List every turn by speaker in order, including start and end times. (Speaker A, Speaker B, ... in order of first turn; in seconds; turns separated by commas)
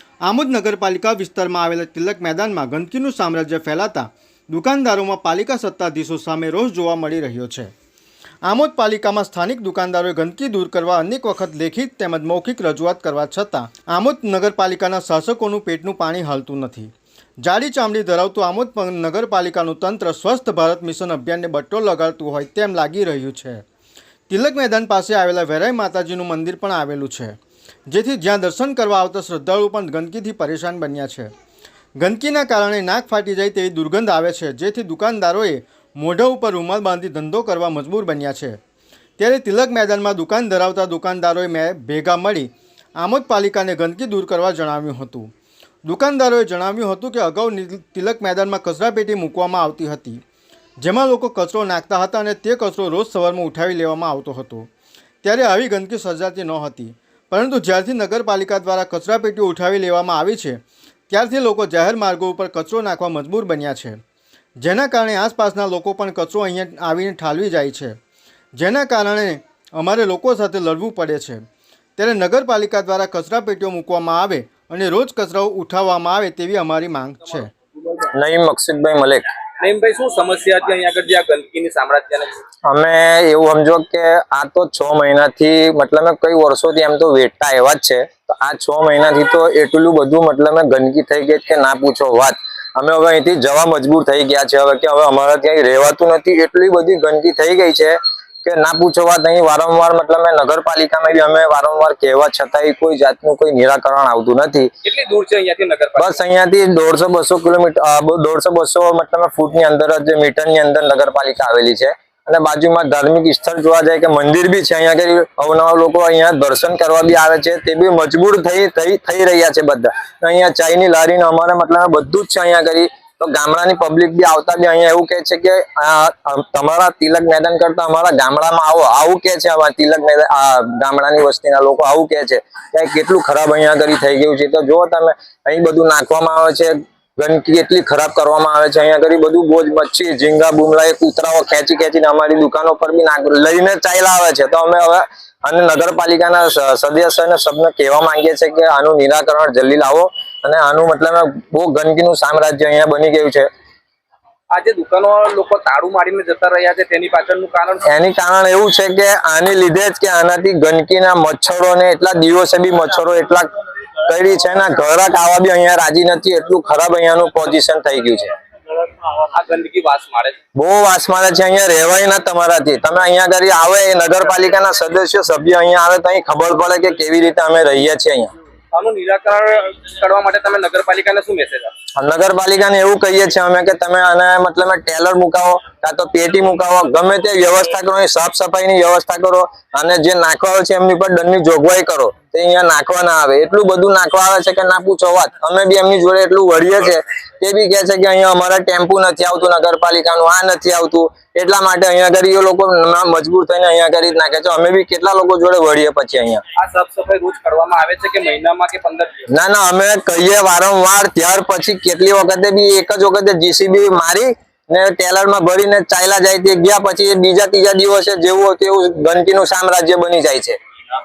Speaker A: 0.2-7.7, Speaker A: 8.4-16.9, Speaker A: 17.4-23.6, Speaker A: 24.3-27.4, Speaker A: 27.9-31.3, Speaker A: 32.0-38.6, Speaker A: 39.2-45.3, Speaker A: 45.9-50.2, Speaker A: 50.8-54.7, Speaker A: 55.2-64.0, Speaker A: 64.6-68.0, Speaker A: 68.6-71.4, Speaker A: 72.0-77.5, Speaker B: 78.1-79.3, Speaker C: 79.6-82.4, Speaker B: 82.7-104.7, Speaker C: 104.8-106.2, Speaker B: 106.0-153.5, Speaker C: 154.5-157.9, Speaker B: 157.8-163.5, Speaker B: 164.1-168.3, Speaker C: 169.2-170.4, Speaker B: 170.6-178.3, Speaker C: 178.7-181.7, Speaker B: 182.0-206.4, Speaker C: 206.6-209.3, Speaker B: 209.3-220.6